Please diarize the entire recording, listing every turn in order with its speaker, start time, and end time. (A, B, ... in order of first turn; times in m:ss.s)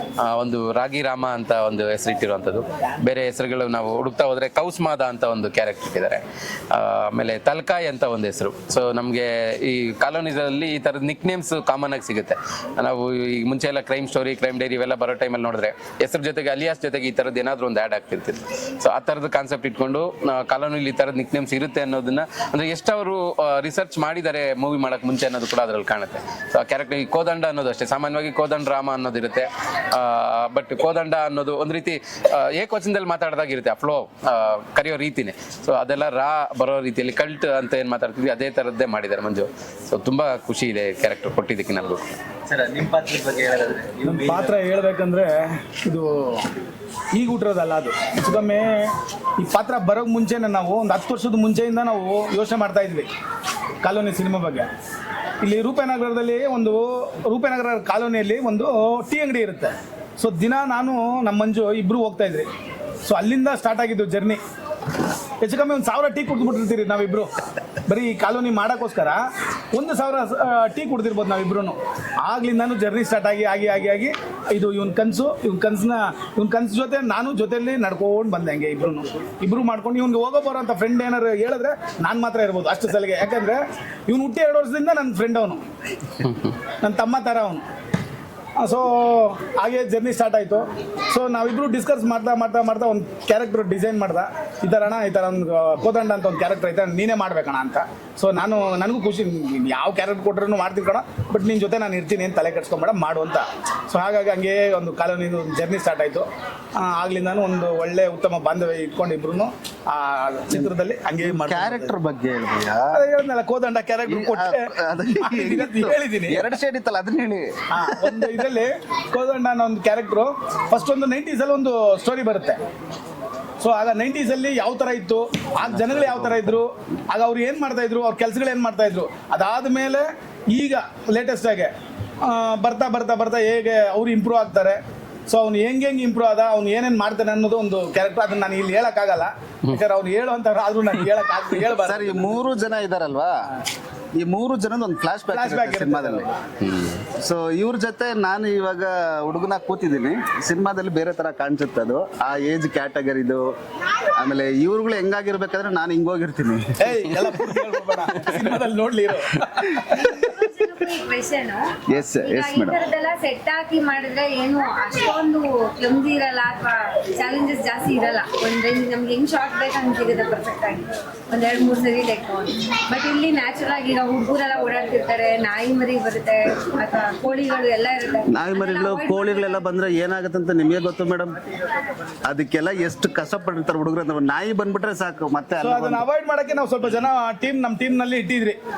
0:00.2-0:42.2 A
0:42.5-0:44.6 B
0:44.0-0:46.5 C
0:47.1-0:53.1 C
0:53.8-0:54.7 C
0:55.4-1:02.5 C
1:03.0-1:04.4 C
1:05.4-1:07.3 C
1:07.9-1:09.2 C
1:09.7-1:25.6 C
1:26.8-1:27.6 C
1:28.6-1:51.9 C
1:50.5-1:53.0 D
1:52.9-1:56.4 C
1:54.1-1:58.4 D
1:57.7-2:02.6 C
2:03.6-2:11.7 C
2:12.2-2:22.3 C
2:21.8-2:23.4 D
2:24.2-2:26.3 D
2:25.3-2:26.3 C
2:26.6-2:27.0 A
2:27.2-2:33.5 D
2:34.1-2:37.0 D
2:36.8-2:40.2 C
2:39.8-2:59.6 E
2:41.9-2:42.8 D
2:58.3-3:01.4 D
3:02.2-3:06.1 D
3:05.6-3:08.6 C